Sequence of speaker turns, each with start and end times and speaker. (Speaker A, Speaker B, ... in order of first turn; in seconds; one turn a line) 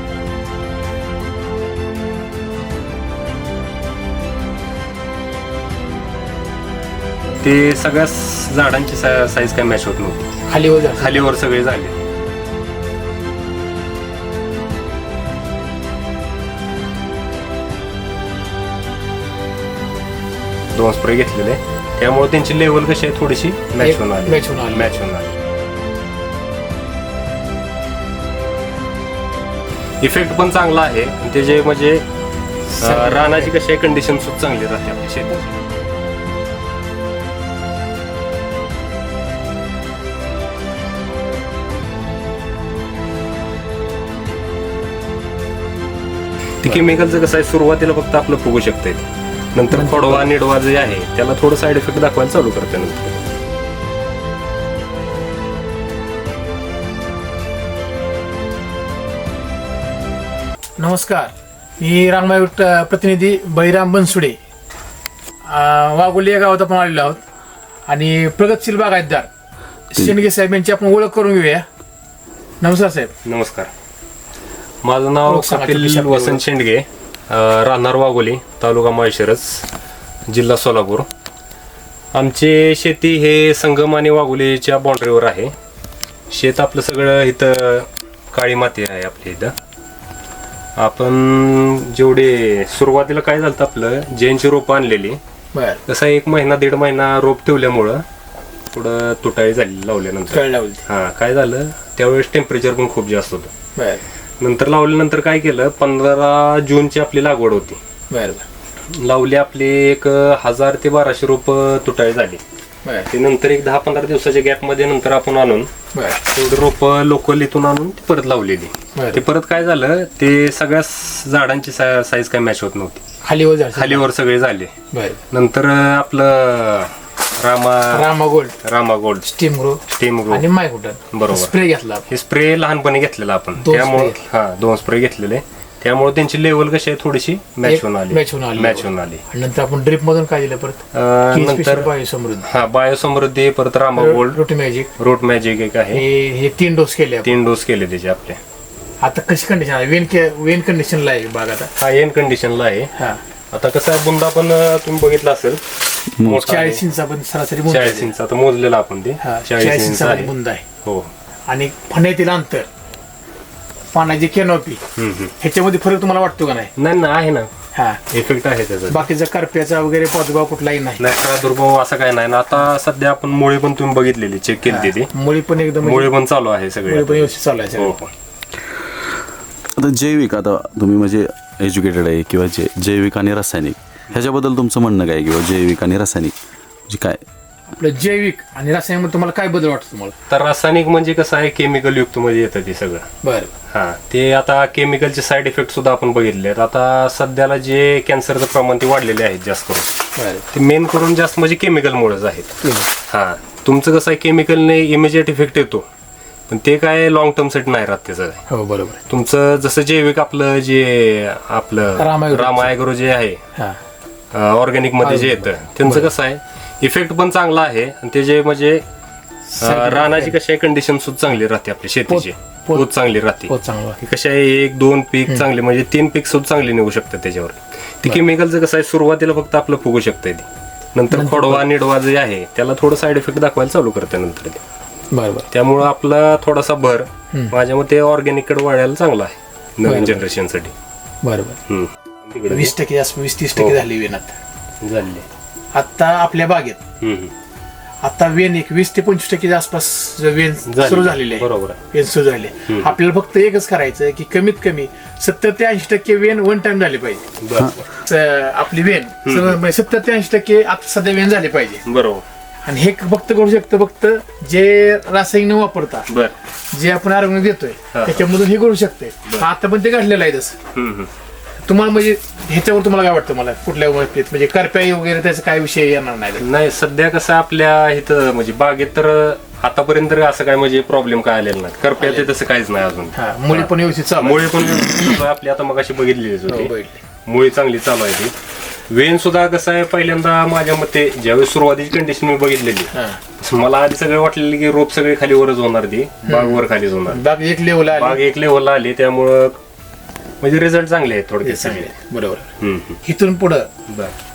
Speaker A: 7.4-10.3
Speaker B: 10.5-11.3
Speaker A: 11.0-11.9
Speaker A: 20.7-25.3
Speaker B: 23.8-25.0
Speaker A: 30.0-32.0
Speaker A: 32.8-35.5
Speaker B: 32.8-33.5
Speaker A: 46.6-53.2
Speaker B: 49.7-50.3
Speaker B: 60.8-64.4
Speaker B: 65.5-67.2
Speaker B: 67.9-69.3
Speaker B: 69.9-71.6
Speaker B: 72.6-73.1
Speaker A: 73.2-73.7
Speaker A: 74.8-79.6
Speaker B: 75.2-76.4
Speaker A: 80.3-81.1
Speaker A: 82.1-85.5
Speaker A: 86.3-89.5
Speaker A: 90.8-95.2
Speaker B: 95.5-95.8
Speaker A: 95.9-98.0
Speaker A: 98.7-103.5
Speaker B: 100.3-100.8
Speaker B: 103.8-104.0
Speaker A: 104.4-107.8
Speaker B: 108.1-108.4
Speaker A: 108.9-112.4
Speaker A: 113.1-115.7
Speaker B: 115.9-116.2
Speaker A: 116.2-123.0
Speaker B: 118.9-119.2
Speaker B: 123.2-124.1
Speaker A: 123.7-124.7
Speaker B: 124.9-125.2
Speaker A: 125.3-128.1
Speaker B: 127.9-128.6
Speaker A: 128.6-129.2
Speaker B: 129.2-132.0
Speaker A: 129.9-130.4
Speaker A: 131.1-131.5
Speaker A: 132.1-139.2
Speaker B: 133.6-134.2
Speaker B: 137.6-140.8
Speaker A: 140.9-141.9
Speaker B: 141.3-142.4
Speaker A: 142.4-144.4
Speaker B: 144.0-144.9
Speaker A: 145.0-146.0
Speaker B: 145.9-147.3
Speaker A: 147.2-148.4
Speaker B: 149.0-151.7
Speaker A: 151.8-152.9
Speaker A: 153.5-155.6
Speaker A: 156.2-156.8
Speaker B: 156.4-158.1
Speaker A: 157.7-160.3
Speaker B: 159.2-160.6
Speaker A: 160.8-161.1
Speaker B: 161.5-162.7
Speaker B: 163.9-164.8
Speaker A: 164.9-165.3
Speaker B: 165.4-166.7
Speaker A: 166.8-167.5
Speaker B: 167.7-168.0
Speaker A: 168.1-169.1
Speaker B: 168.9-171.0
Speaker A: 171.0-175.1
Speaker B: 174.7-176.1
Speaker A: 175.8-178.1
Speaker B: 176.8-177.9
Speaker C: 179.8-186.3
Speaker C: 186.9-187.2
Speaker B: 187.7-190.1
Speaker A: 190.3-193.1
Speaker B: 193.2-193.5
Speaker A: 193.7-199.9
Speaker B: 200.2-200.4
Speaker A: 200.5-202.6
Speaker B: 202.6-202.9
Speaker A: 203.1-205.8
Speaker A: 206.5-208.4
Speaker B: 208.5-209.0
Speaker A: 209.1-213.4
Speaker B: 212.0-212.7
Speaker A: 214.3-218.8
Speaker B: 215.0-216.1
Speaker B: 219.6-220.3
Speaker A: 219.6-234.6
Speaker B: 222.1-222.9
Speaker B: 223.5-224.0
Speaker B: 231.1-231.7
Speaker B: 235.1-235.5
Speaker A: 235.5-240.7
Speaker B: 239.8-240.2
Speaker B: 241.2-241.6
Speaker A: 241.7-242.7
Speaker B: 242.5-244.3
Speaker A: 244.8-245.2
Speaker B: 245.7-246.8
Speaker A: 247.0-247.3
Speaker B: 248.0-257.2
Speaker A: 250.7-251.8
Speaker A: 252.7-252.9
Speaker A: 257.4-257.8
Speaker B: 257.9-261.8
Speaker A: 259.2-259.6
Speaker A: 261.8-262.2
Speaker B: 262.6-266.1
Speaker A: 266.1-266.3
Speaker B: 266.7-270.6
Speaker A: 267.9-268.2
Speaker A: 270.7-271.1
Speaker B: 271.6-276.4
Speaker A: 276.4-286.7
Speaker B: 282.0-282.3
Speaker B: 283.1-284.9
Speaker B: 286.5-287.0
Speaker A: 287.2-288.3
Speaker A: 288.9-297.2
Speaker B: 292.9-293.2
Speaker B: 296.2-298.2
Speaker A: 297.9-299.6
Speaker A: 300.4-301.9
Speaker B: 301.4-302.5
Speaker A: 302.6-303.0
Speaker B: 303.0-303.7
Speaker A: 303.9-304.1